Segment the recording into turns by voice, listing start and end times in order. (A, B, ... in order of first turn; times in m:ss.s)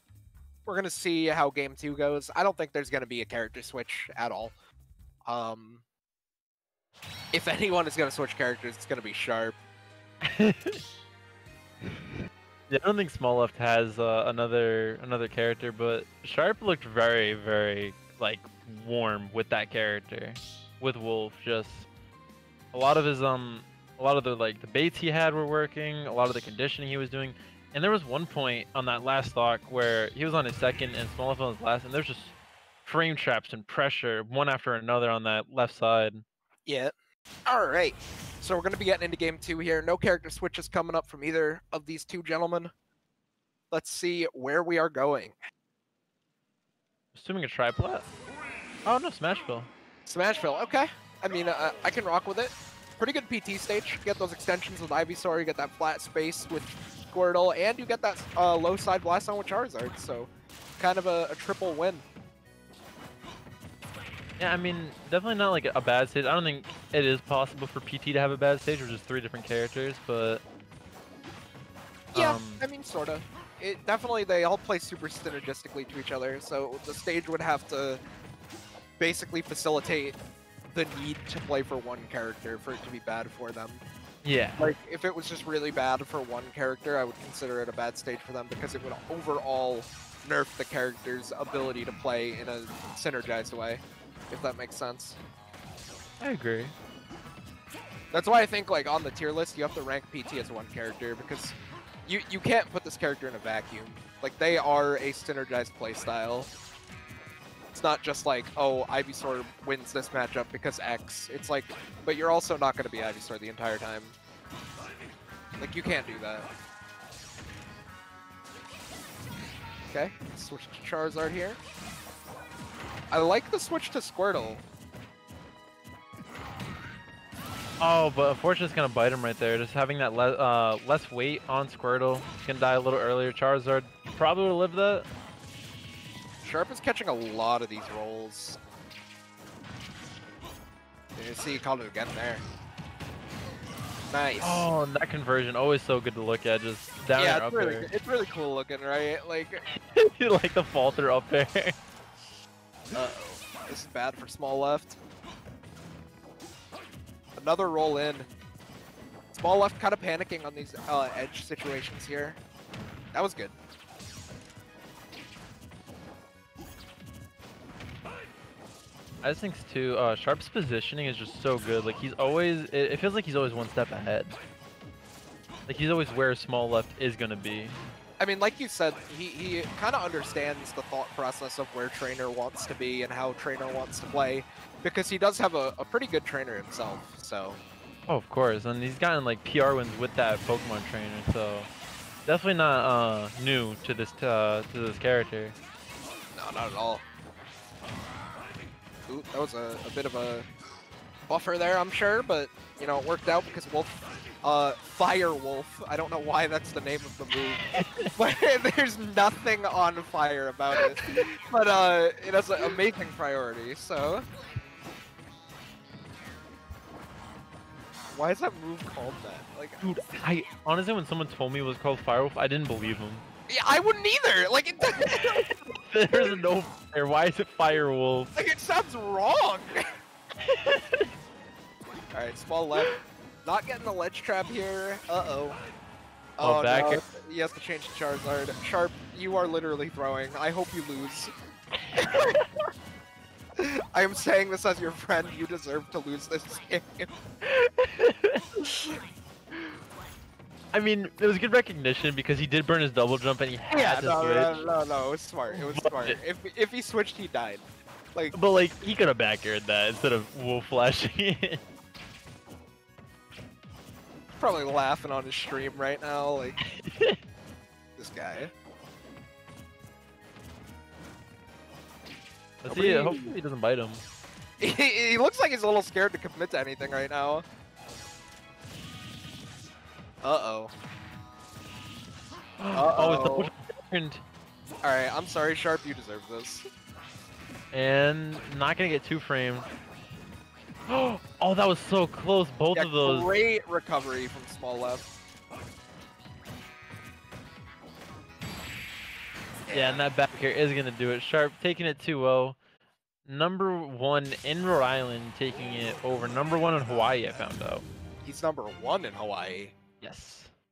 0:00.7-0:04.6 A
0:05.2-0:05.8 A
0:07.3-0:09.6 A
0:10.3-0:10.8 B
0:12.7-0:21.9 B
0:22.7-0:36.2 B
0:36.7-0:36.9 A
0:37.5-0:42.7 A
0:43.7-0:45.4 A
0:47.1-0:48.1 B
0:48.8-0:49.7 B
0:50.1-1:02.0 A
1:04.4-1:10.4 B
1:12.1-1:12.6 B
1:12.1-1:18.0 A
1:19.0-1:20.2 A
1:20.7-1:23.8 A
1:24.2-1:24.7 B
1:24.6-1:35.2 A
1:36.2-1:36.7 B
1:38.1-1:46.5 A
1:47.7-1:54.2 A
1:55.6-1:56.5 A
1:59.9-2:01.6 A
2:03.1-2:04.6 A
2:07.8-2:15.1 B
2:16.4-2:18.6 A
2:21.2-2:22.4 A
2:24.1-2:24.7 A
2:24.4-2:27.9 B
2:27.2-2:29.6 A
2:29.7-2:31.8 B
2:32.9-2:35.0 A
2:37.4-2:38.3 A
2:39.3-2:42.4 A
2:43.1-2:43.6 A
2:49.2-2:54.4 B
2:55.7-2:57.8 B
2:58.2-3:07.6 A
3:08.1-3:11.7 B
3:12.3-3:15.6 B
3:16.4-3:17.0 A
3:19.1-3:20.5 A
3:21.3-3:34.3 A
3:27.7-3:28.1 B
3:38.1-3:39.8 A
3:39.8-3:43.2 B
3:43.5-3:45.4 A
3:45.2-3:48.3 B
3:46.1-3:46.4 A
3:48.4-3:49.8 A
3:50.4-3:51.1 B
3:52.1-3:55.6 A
3:56.4-4:01.3 A
3:56.4-3:57.0 B
4:01.9-4:02.4 B
4:03.6-4:07.1 A
4:07.4-4:09.0 B
4:10.7-4:14.7 B
4:13.7-4:18.4 A
4:15.5-4:16.2 B
4:18.3-4:21.6 B
4:24.4-4:26.6 A
4:26.6-4:27.2 B
4:28.0-4:28.5 A
4:32.6-4:34.0 B
4:32.7-4:33.3 A
4:34.6-4:37.4 A
4:40.2-4:40.7 A
4:42.6-4:44.2 B
4:42.7-4:43.5 A
4:44.8-4:46.7 A
4:47.7-4:49.7 B
4:50.9-4:53.3 B
4:52.7-4:55.1 A
4:59.7-5:00.0 A
4:59.7-5:02.6 B
5:03.3-5:07.9 B
5:08.2-5:09.8 A
5:10.0-5:10.5 B